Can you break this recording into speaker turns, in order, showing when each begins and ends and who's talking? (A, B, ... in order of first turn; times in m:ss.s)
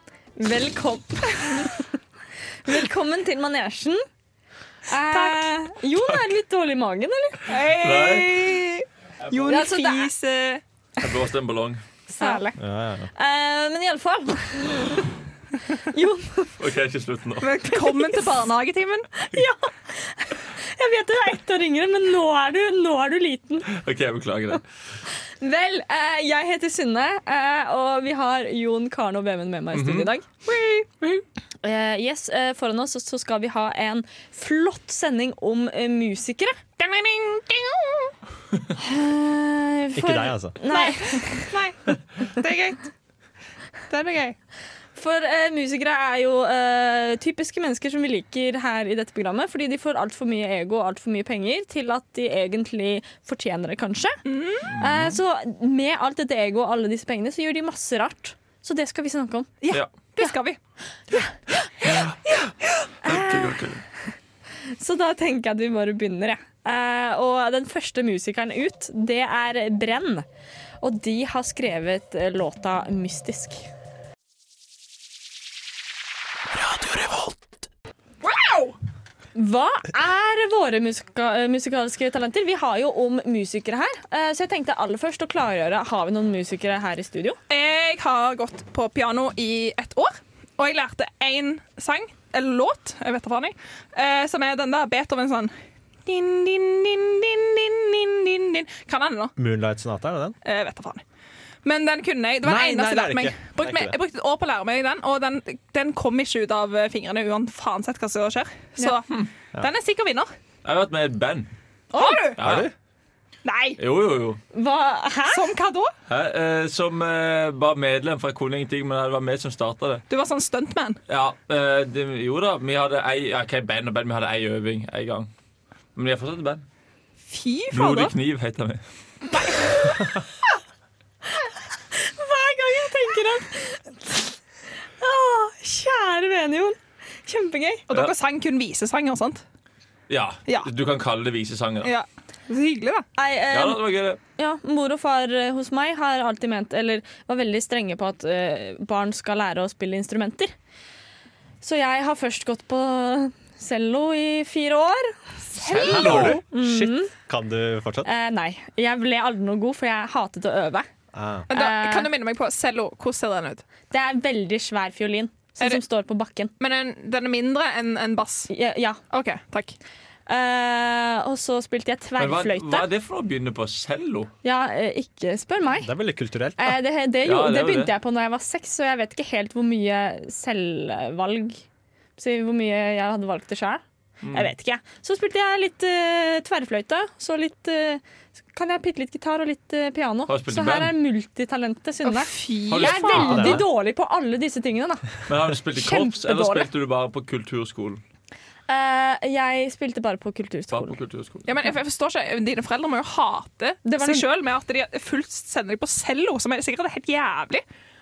0:00.4-0:01.9 A
0:02.6-0:04.0 A
0:04.9-0:07.4 A
0:05.1-0:05.4 B
0:07.5-0:10.6 B
0:07.8-0:08.5 C
0:09.4-0:10.1 A
0:11.0-0:11.8 C
0:12.1-0:12.6 A
0:12.2-0:12.4 B
0:12.6-0:13.1 D
0:13.1-0:15.0 A
0:15.8-0:16.5 A
0:16.6-0:17.5 C
0:17.4-0:19.1 B
0:17.7-0:18.3 A
0:19.2-0:23.7 A
0:23.7-0:24.6 C
0:25.4-0:36.6 A
0:29.7-0:30.1 C
0:36.8-0:38.1 B
0:38.8-0:41.6 A
0:39.9-0:40.6 D
0:40.7-0:42.9 B
0:43.9-0:44.4 B
0:45.0-0:59.5 A
0:54.3-0:54.7 B
0:54.7-0:55.2 C
0:59.6-1:00.6 B
1:01.1-1:03.6 A
1:01.8-1:02.2 C
1:03.0-1:03.8 C
1:04.8-1:10.2 A
1:10.8-1:13.7 A
1:16.7-1:17.2 D
1:18.2-1:18.8 B
1:19.3-1:27.4 A
1:27.5-1:35.5 B
1:36.0-1:39.3 B
1:39.4-1:40.4 D
1:40.4-1:41.0 B
1:41.6-1:50.3 B
1:42.4-1:44.0 D
1:50.6-1:51.5 C
1:51.9-1:52.4 B
1:52.0-1:52.2 A
1:52.4-1:52.7 C
1:52.4-1:52.7 D
1:53.4-1:53.8 B
1:53.8-1:54.4 C
1:54.5-1:55.5 A
1:55.3-1:55.9 B
1:56.1-2:00.0 C
2:00.1-2:01.0 B
2:01.1-2:05.3 C
2:06.0-2:06.6 C
2:07.3-2:08.1 B
2:07.7-2:08.8 C
2:12.0-2:14.4 A
2:15.0-2:17.8 A
2:17.9-2:19.4 B
2:20.1-2:21.9 C
2:21.8-2:23.1 B
2:23.2-2:30.5 A
2:23.5-2:24.2 C
2:31.6-2:35.2 A
2:35.6-2:36.3 B
2:35.6-2:36.4 C
2:35.7-2:38.1 D
2:36.0-2:37.1 A
2:38.0-2:40.9 A
2:41.1-2:41.5 D
2:41.5-2:42.1 A
2:41.5-2:43.6 B
2:43.9-2:46.5 A
2:46.6-2:48.5 B
2:48.5-2:49.0 A
2:49.1-2:49.8 B
2:50.3-2:52.9 A
2:52.2-2:54.3 C
2:54.4-2:55.9 A
2:55.8-2:56.8 D
2:56.6-3:01.6 A
2:57.2-2:57.9 C
3:02.2-3:15.1 A
3:04.2-3:04.5 C
3:10.3-3:10.9 C
3:12.0-3:13.6 B
3:12.7-3:13.6 C
3:13.2-3:13.6 D
3:15.3-3:18.0 C
3:15.7-3:16.7 A
3:18.7-3:21.0 A
3:20.7-3:21.5 C
3:21.5-3:27.6 B
3:23.8-3:24.3 A